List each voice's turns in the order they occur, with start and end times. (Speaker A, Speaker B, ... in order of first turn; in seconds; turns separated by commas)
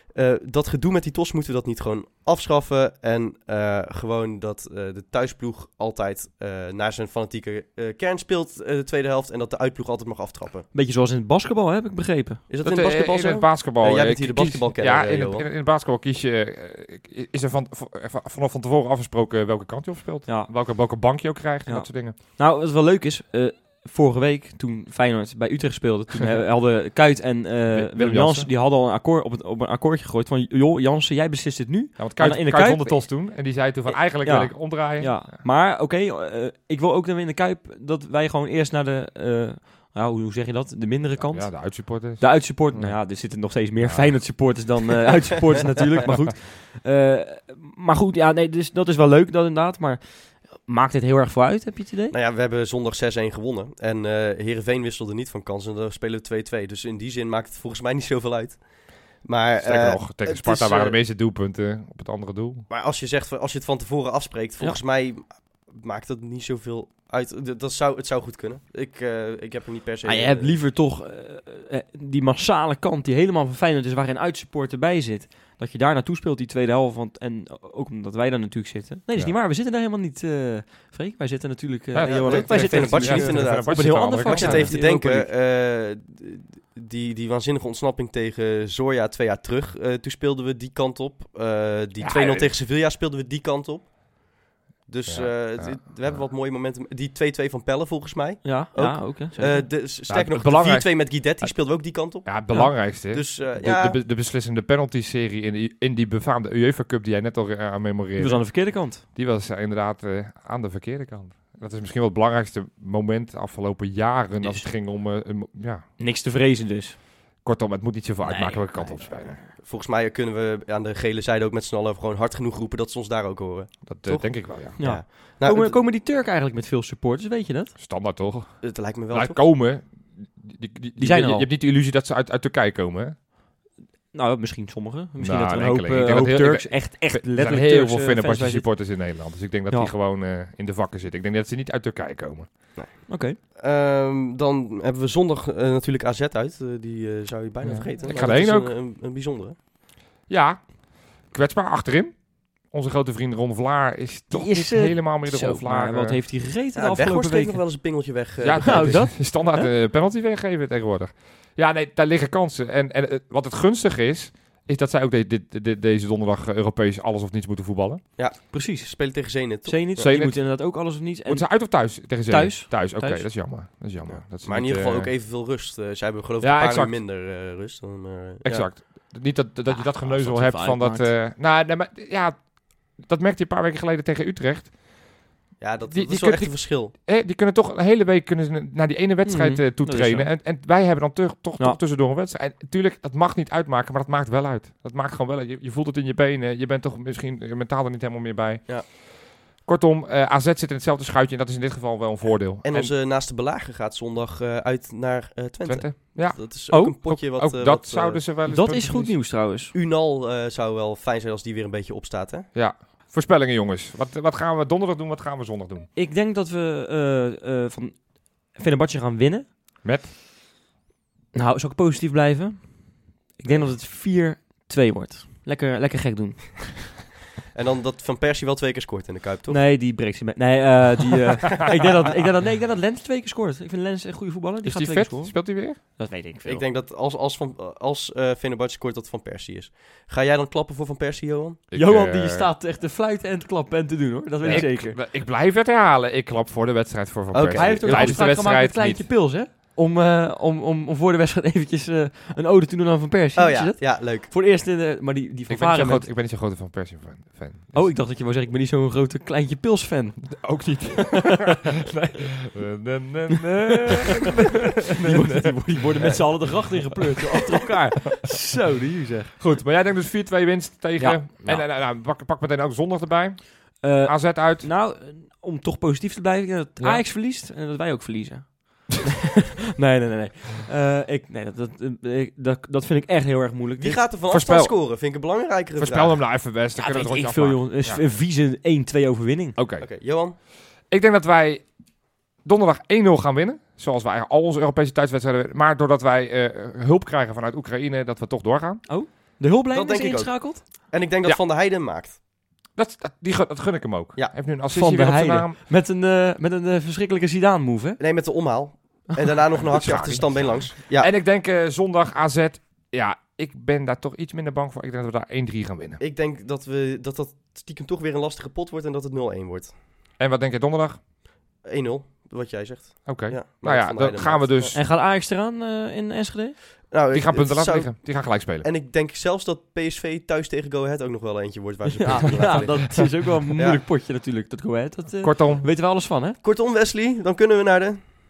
Speaker A: 0.1-10.7, Speaker B: 10.7-12.4, Speaker A: 12.5-15.4, Speaker C: 12.6-22.1, Speaker B: 21.6-33.1, Speaker C: 27.7-28.5, Speaker C: 32.0-35.2, Speaker B: 34.0-52.1, Speaker C: 41.2-43.0, Speaker C: 43.8-44.2, Speaker A: 52.1-58.6, Speaker A: 59.2-61.0, Speaker C: 59.6-62.6, Speaker A: 62.7-70.5, Speaker B: 70.0-85.3, Speaker C: 81.9-84.7, Speaker A: 82.0-93.9, Speaker C: 92.0-92.5, Speaker A: 94.9-104.0, Speaker C: 95.1-96.2, Speaker B: 98.4-99.7, Speaker C: 100.1-101.5, Speaker C: 102.2-115.8, Speaker B: 108.2-109.0, Speaker B: 114.4-114.7, Speaker B: 116.0-117.0, Speaker C: 117.4-119.4, Speaker B: 118.2-119.3, Speaker A: 119.5-125.8, Speaker C: 123.8-124.8, Speaker B: 124.8-127.7, Speaker C: 127.8-133.2, Speaker A: 128.6-129.4, Speaker B: 131.0-131.5, Speaker B: 134.1-138.7, Speaker C: 135.2-142.5, Speaker A: 142.8-149.6, Speaker B: 143.1-143.4, Speaker C: 147.6-148.7, Speaker C: 150.3-152.2, Speaker C: 152.7-156.2, Speaker B: 154.3-157.6, Speaker A: 156.8-159.1, Speaker C: 158.4-168.0, Speaker B: 158.6-159.7, Speaker A: 168.2-170.0, Speaker B: 168.5-168.9, Speaker B: 169.6-171.7, Speaker C: 170.0-170.4, Speaker C: 171.3-175.1, Speaker B: 172.3-173.2, Speaker A: 174.4-178.4, Speaker C: 176.4-176.9, Speaker C: 178.4-182.4, Speaker B: 179.7-181.1, Speaker C: 183.0-184.7, Speaker A: 185.6-186.9, Speaker C: 185.9-198.7, Speaker B: 189.2-190.3, Speaker C: 199.6-202.9, Speaker A: 202.6-208.2, Speaker C: 205.6-209.1, Speaker B: 206.7-206.9, Speaker B: 208.5-209.7, Speaker A: 209.7-212.5, Speaker C: 212.5-215.9, Speaker B: 215.9-218.0, Speaker B: 218.5-219.5, Speaker C: 219.8-220.1, Speaker B: 221.3-226.9, Speaker A: 227.5-229.6, Speaker B: 229.5-236.6, Speaker C: 234.6-235.8, Speaker A: 236.4-241.6, Speaker C: 241.7-242.5, Speaker B: 241.7-245.0, Speaker C: 244.4-249.1, Speaker A: 247.3-248.3, Speaker B: 247.5-256.1, Speaker A: 253.3-254.3, Speaker C: 255.5-257.9, Speaker B: 257.7-260.4, Speaker C: 260.4-266.2, Speaker B: 261.0-261.7, Speaker B: 263.3-269.3, Speaker C: 269.4-274.7, Speaker B: 271.0-271.6, Speaker B: 273.8-284.0, Speaker C: 276.8-277.0, Speaker A: 283.8-286.2, Speaker C: 284.3-284.7, Speaker C: 285.8-288.0, Speaker B: 286.8-289.6, Speaker C: 289.6-289.9, Speaker A: 289.8-290.3, Speaker C: 290.9-291.6, Speaker C: 292.4-298.8, Speaker B: 298.9-300.6, Speaker A: 299.7-302.2, Speaker C: 302.8-305.6, Speaker B: 304.7-308.0, Speaker A: 308.0-311.1, Speaker C: 309.6-316.0, Speaker A: 316.0-319.7, Speaker C: 320.2-321.0, Speaker A: 321.6-324.8, Speaker C: 323.1-324.8, Speaker B: 324.7-326.6, Speaker A: 326.9-333.8, Speaker C: 327.1-328.7, Speaker B: 331.8-336.4, Speaker C: 335.2-335.6, Speaker A: 336.4-338.0